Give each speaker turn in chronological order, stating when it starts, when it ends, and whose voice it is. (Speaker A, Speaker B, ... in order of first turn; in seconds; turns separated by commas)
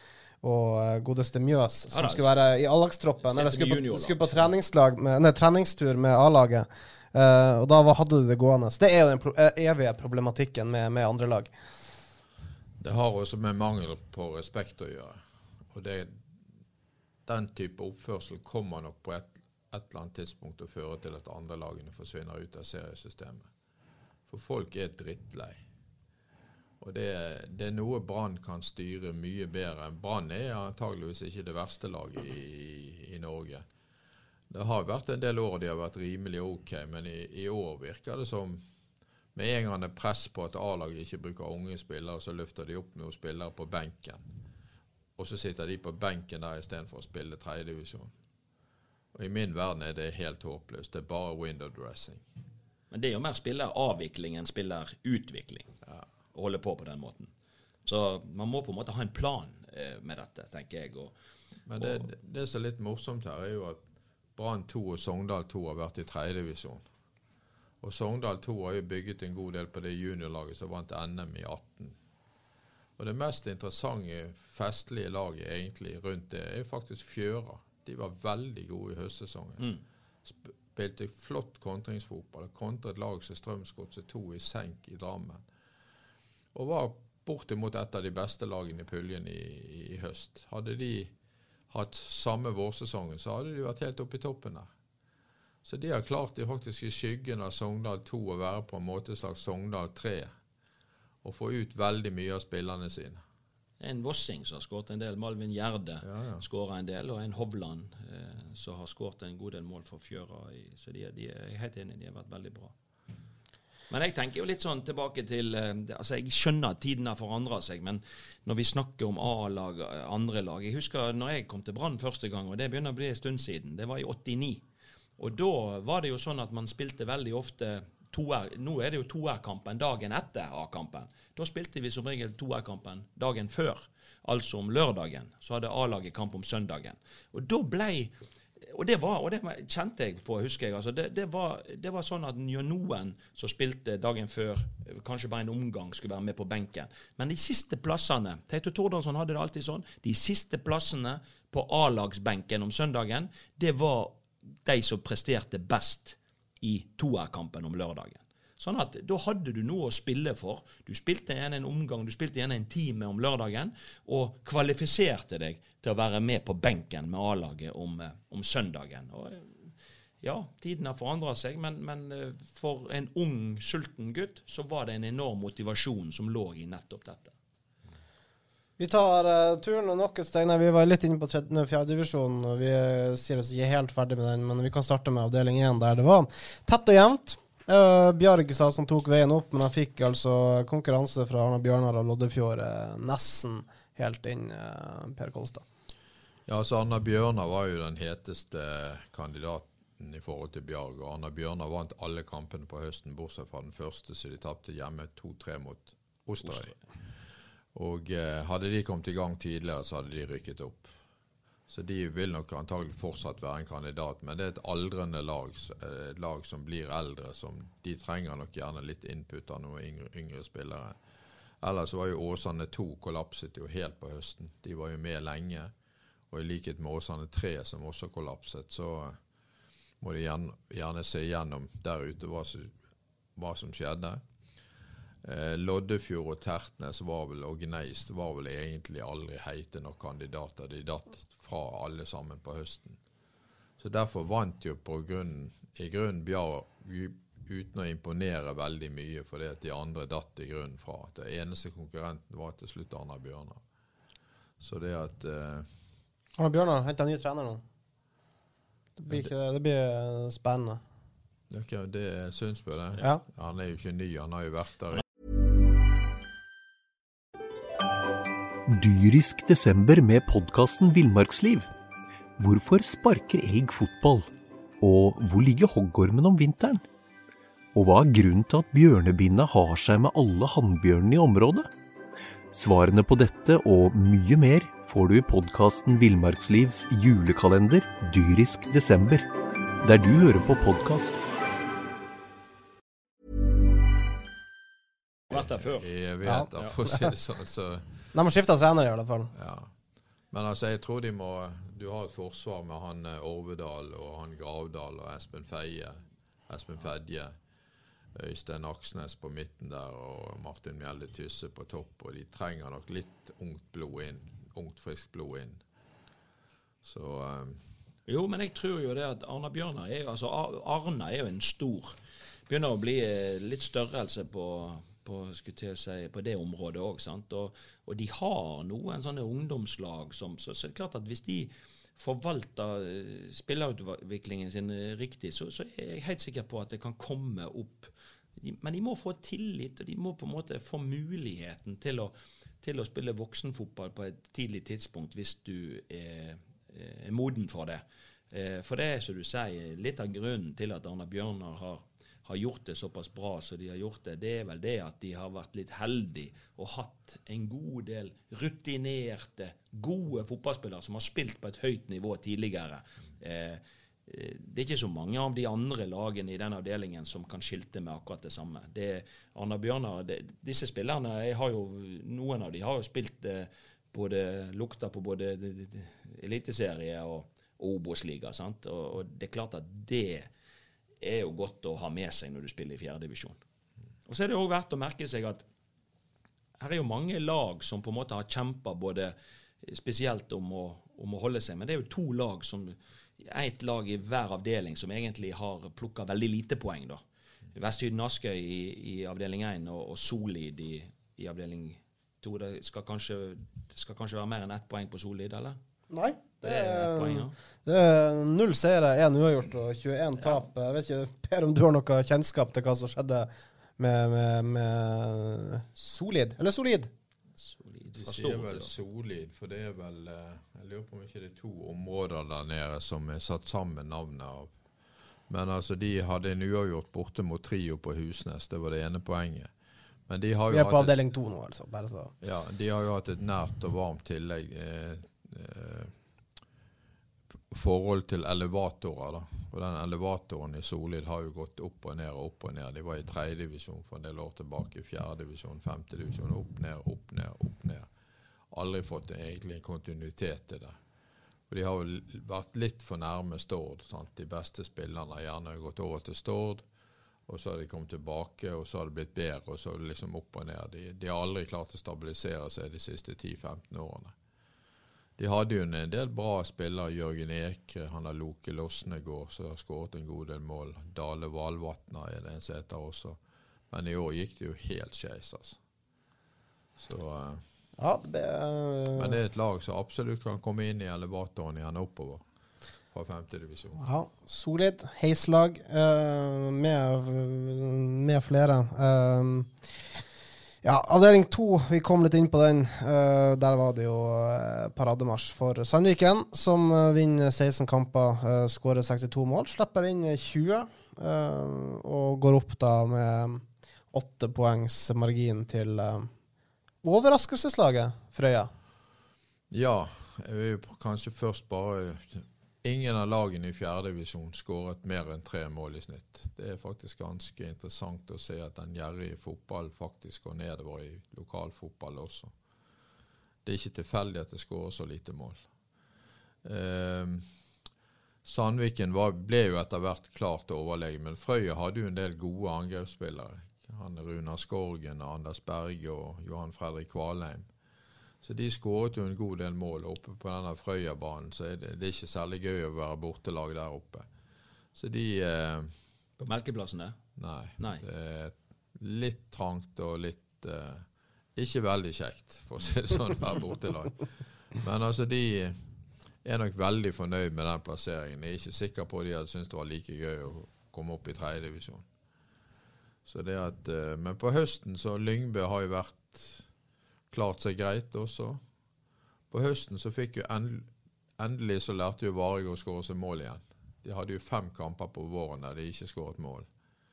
Speaker A: 0.4-11.5, Speaker B: 1.9-2.4, Speaker B: 3.2-4.5, Speaker C: 12.8-15.2, Speaker C: 15.7-16.2, Speaker C: 17.2-23.5, Speaker C: 24.3-25.6, Speaker C: 26.8-33.6, Speaker C: 34.5-38.6, Speaker C: 39.3-44.3, Speaker C: 45.2-48.1, Speaker C: 49.1-52.2, Speaker B: 52.9-55.7, Speaker B: 56.3-57.3, Speaker B: 57.8-61.1, Speaker C: 61.7-63.8, Speaker B: 61.8-62.1, Speaker C: 64.3-66.8, Speaker C: 67.8-72.0, Speaker C: 73.0-79.7, Speaker C: 80.2-85.4, Speaker C: 86.5-91.1, Speaker C: 91.7-94.7, Speaker C: 95.6-100.3, Speaker C: 101.2-103.2, Speaker B: 103.8-112.7, Speaker C: 106.0-106.4, Speaker B: 113.9-124.6, Speaker B: 125.2-138.1, Speaker B: 138.7-177.3, Speaker A: 178.8-195.6, Speaker C: 196.5-206.7, Speaker B: 206.4-206.8, Speaker C: 207.7-210.9, Speaker C: 211.7-220.9, Speaker C: 221.6-225.7, Speaker C: 226.3-229.2, Speaker C: 230.0-232.7, Speaker C: 233.3-234.2, Speaker C: 235.2-243.0, Speaker C: 243.8-253.6, Speaker C: 254.6-255.7, Speaker A: 256.4-257.6, Speaker A: 259.0-260.8, Speaker C: 261.5-265.0, Speaker D: 268.7-271.7, Speaker D: 272.4-274.3, Speaker D: 274.8-276.8, Speaker D: 277.7-281.7, Speaker D: 282.5-289.3, Speaker D: 289.8-291.3, Speaker B: 295.3-295.9, Speaker C: 295.3-297.9, Speaker A: 296.2-297.1, Speaker A: 298.1-299.3, Speaker C: 299.3-299.7, Speaker C: 300.3-307.3, Speaker C: 308.1-315.6, Speaker C: 316.8-317.6, Speaker B: 318.1-321.9, Speaker B: 322.5-380.3, Speaker B: 381.0-383.4, Speaker B: 384.1-385.4, Speaker B: 386.6-397.0, Speaker B: 397.5-405.6, Speaker A: 405.9-416.9, Speaker B: 406.4-407.3, Speaker B: 417.4-418.7, Speaker C: 417.9-424.5, Speaker C: 425.3-429.5, Speaker C: 430.1-430.9, Speaker A: 430.5-432.1, Speaker C: 432.2-435.9, Speaker C: 437.5-447.9, Speaker C: 448.5-450.8, Speaker C: 451.5-456.6, Speaker C: 457.3-464.1, Speaker C: 465.2-473.2, Speaker C: 473.7-475.6, Speaker C: 476.8-477.4, Speaker A: 477.8-479.2, Speaker C: 478.9-482.2, Speaker C: 482.9-483.8, Speaker A: 483.8-489.5, Speaker A: 490.6-506.1, Speaker A: 506.8-508.5, Speaker C: 509.5-522.3, Speaker C: 523.4-525.4, Speaker C: 526.4-527.3, Speaker C: 528.2-537.5, Speaker C: 538.2-544.1, Speaker C: 544.7-545.7, Speaker B: 546.2-547.0, Speaker C: 547.2-550.8, Speaker C: 551.4-555.6, Speaker C: 556.2-561.8, Speaker C: 563.0-566.5, Speaker C: 567.1-568.4, Speaker C: 569.3-570.7, Speaker C: 571.2-576.5